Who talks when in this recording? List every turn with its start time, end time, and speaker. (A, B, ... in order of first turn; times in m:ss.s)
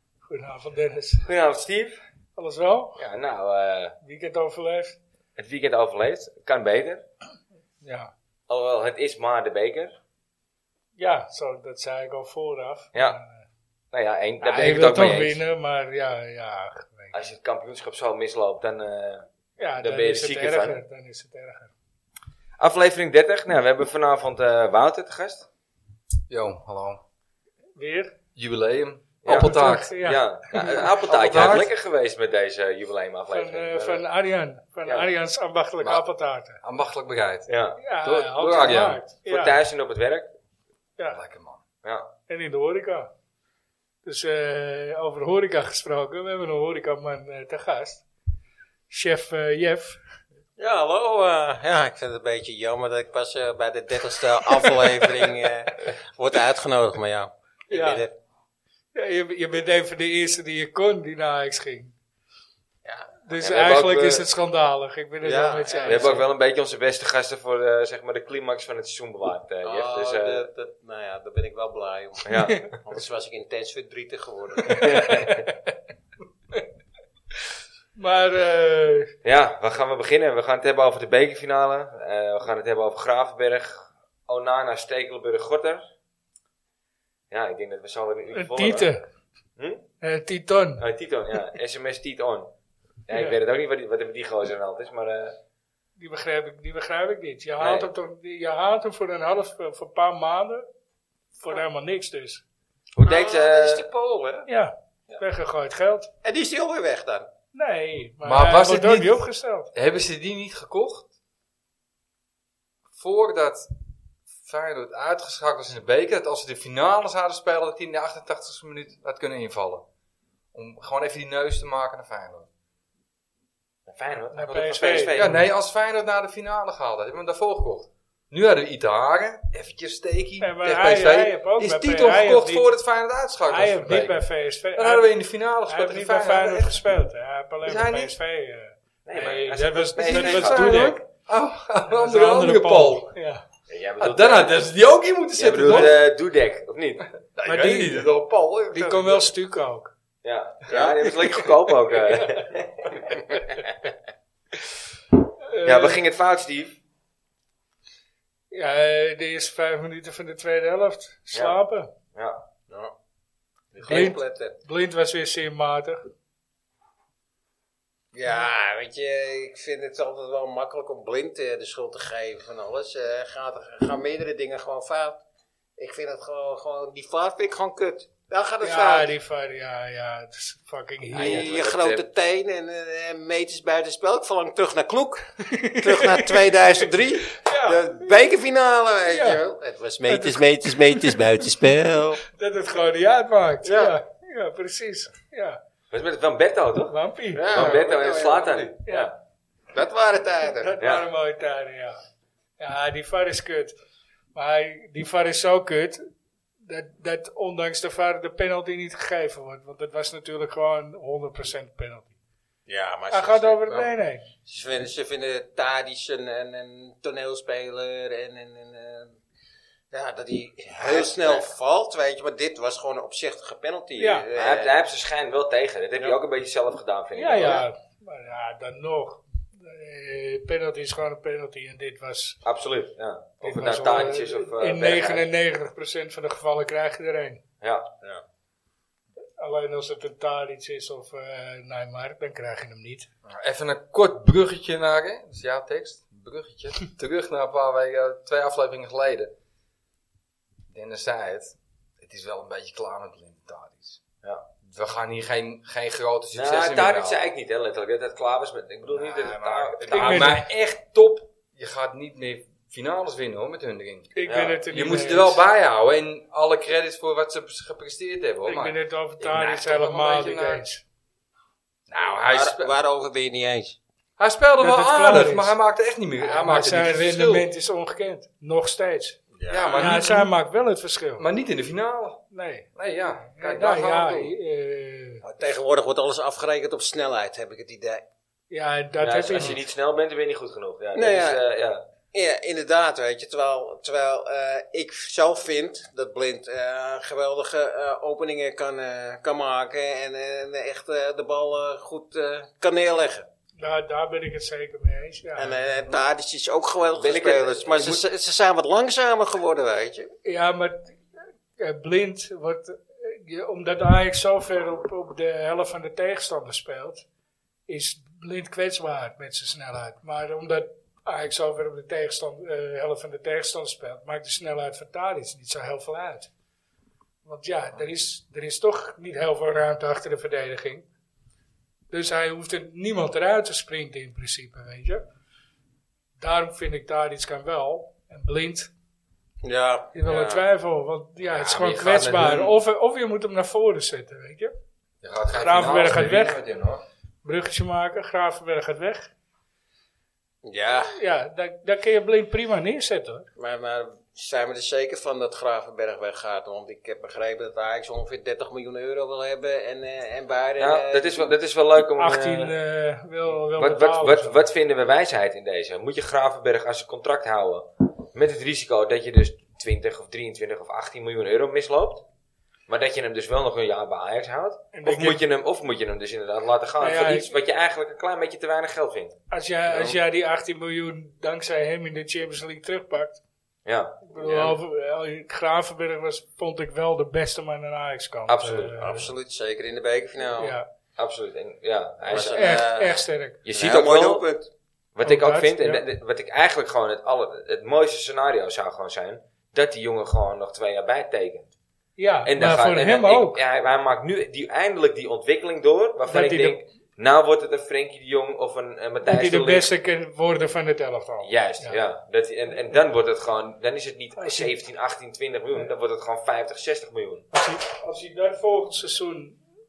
0:00.2-0:01.3 A
0:01.2-0:02.0 B
0:02.4-0:03.0 A
0:03.0-0:04.0 B
0:04.0-0:05.0 A
0:05.4-0:07.0 B
0:07.8-0:08.1 A
0:08.5-0:09.9 B
0:11.0-0:13.4 A
0:13.9-0:15.4 B
0:14.4-0:17.1 A
0:17.1-0:19.3 B
0:19.6-0:21.7 A
0:19.8-0:20.8 B
0:22.6-0:25.4 B
0:26.3-0:27.0 C
0:27.8-0:28.1 A
0:28.4-0:29.9 C
0:29.2-0:34.0 B
0:29.3-0:30.9 A
0:31.0-0:31.7 C
0:33.3-0:36.6 A
0:36.6-0:37.5 C
0:37.5-0:37.8 B
0:37.8-0:39.6 A
0:38.0-0:39.0 C
0:39.2-0:40.3 B
0:41.1-0:41.6 C
0:41.8-0:42.1 B
0:42.3-0:43.1 A
0:44.0-0:48.0 A
0:48.9-0:50.0 A
0:50.6-0:58.1 D
0:54.5-0:55.1 A
0:57.7-0:58.0 A
0:58.9-1:01.9 A
1:02.8-1:03.1 D
1:03.2-1:06.2 A
1:03.4-1:04.2 B
1:05.2-1:06.2 D
1:05.8-1:10.5 B
1:09.6-1:15.0 D
1:12.2-1:12.6 B
1:14.7-1:15.5 B
1:17.9-1:19.1 A
1:19.2-1:25.9 B
1:27.3-1:28.9 B
1:28.3-1:29.0 A
1:29.6-1:29.8 B
1:30.0-1:30.8 A
1:30.8-1:32.5 B
1:33.1-1:35.4 B
1:36.0-1:40.6 A
1:37.6-1:37.9 B
1:41.4-1:42.4 A
1:42.9-1:43.8 B
1:43.0-1:44.5 D
1:44.5-1:46.1 A
1:46.2-1:47.3 D
1:47.5-1:49.7 A
1:48.2-1:51.1 C
1:52.9-1:53.7 C
1:54.4-1:59.8 C
2:00.5-2:02.5 C
2:03.9-2:05.4 B
2:04.3-2:05.4 A
2:05.1-2:14.2 C
2:10.4-2:12.8 A
2:13.5-2:21.0 A
2:14.8-2:16.8 C
2:17.6-2:18.1 C
2:19.0-2:20.9 B
2:20.0-2:23.1 C
2:21.9-2:23.4 A
2:23.7-2:24.7 B
2:24.0-2:26.0 C
2:25.4-2:27.0 B
2:27.3-2:29.3 C
2:27.4-2:28.1 A
2:28.7-2:29.9 A
2:30.2-2:32.9 B
2:30.7-2:31.0 D
2:35.5-2:36.0 A
2:35.6-2:36.8 B
2:38.5-2:41.9 A
2:41.3-2:41.6 B
2:42.1-2:42.4 B
2:43.7-2:44.6 D
2:43.8-2:46.0 A
2:48.1-2:55.2 D
2:55.8-2:59.1 D
2:58.6-3:01.5 A
3:01.1-3:12.2 D
3:01.1-3:02.0 C
3:05.5-3:07.9 A
3:09.1-3:09.4 A
3:10.0-3:11.4 A
3:12.3-3:15.6 A
3:13.6-3:13.9 D
3:15.9-3:16.9 B
3:16.9-3:17.8 A
3:17.3-3:18.7 D
3:17.5-3:19.1 B
3:19.7-3:20.7 D
3:20.6-3:22.0 A
3:22.6-3:23.7 A
3:24.3-3:26.0 A
3:26.6-3:32.1 A
3:32.7-3:33.6 D
3:33.1-3:34.2 A
3:34.4-3:39.2 D
3:39.9-3:44.7 D
3:40.8-3:41.5 B
3:44.0-3:44.2 A
3:44.3-3:47.6 B
3:47.1-3:52.4 A
3:52.4-3:55.3 B
3:53.4-3:57.4 A
3:57.6-3:57.9 B
3:59.4-4:03.0 A
4:03.3-4:09.3 C
4:10.7-4:14.0 C
4:14.6-4:17.2 C
4:16.3-4:20.4 B
4:18.9-4:24.1 C
4:19.9-4:20.4 A
4:24.1-4:25.4 A
4:24.3-4:24.6 B
4:24.7-4:30.6 C
4:28.4-4:30.8 A
4:31.9-4:32.7 C
4:32.2-4:33.8 D
4:34.2-4:37.5 C
4:34.6-4:35.5 A
4:36.2-4:39.2 A
4:39.3-4:40.0 D
4:39.5-4:40.3 C
4:39.7-4:41.3 A
4:41.2-4:42.2 C
4:42.3-4:42.7 A
4:42.8-4:44.3 C
4:43.3-4:45.2 A
4:45.2-4:48.0 D
4:48.5-4:49.6 A
4:49.0-4:51.8 B
4:51.0-4:51.4 D
4:52.1-5:03.2 D
5:03.6-5:05.6 A
5:05.4-5:10.1 D
5:06.9-5:08.0 B
5:10.2-5:10.9 A
5:11.6-5:17.0 A
5:17.7-5:26.3 A
5:27.2-5:30.8 A
5:31.9-5:35.0 A
5:36.2-5:38.7 A
5:39.4-5:40.4 D
5:39.9-5:44.5 A
5:41.2-5:42.6 C
5:45.0-5:46.8 C
5:45.4-5:46.4 A
5:47.2-5:49.1 A
5:50.4-5:51.0 D
5:50.9-5:53.3 A
5:53.4-6:01.3 D
6:00.6-6:02.5 B
6:02.0-6:04.4 A
6:03.6-6:12.0 B
6:12.7-6:19.1 B
6:14.7-6:15.2 A
6:16.8-6:17.3 A
6:19.3-6:23.2 A
6:23.6-6:24.0 B
6:24.1-6:29.1 A
6:24.2-6:24.6 D
6:28.3-6:28.7 B
6:28.8-6:30.5 D
6:30.4-6:30.6 A
6:31.0-6:32.5 B
6:32.0-6:34.5 D
6:32.1-6:33.4 A
6:33.4-6:34.2 B
6:34.9-6:41.5 B
6:35.0-6:35.8 A
6:42.0-6:43.4 A
6:42.2-6:49.7 B
6:46.1-6:46.6 A
6:49.0-6:51.8 A
6:51.2-6:57.2 B
6:54.2-6:54.5 A
6:57.3-6:59.4 A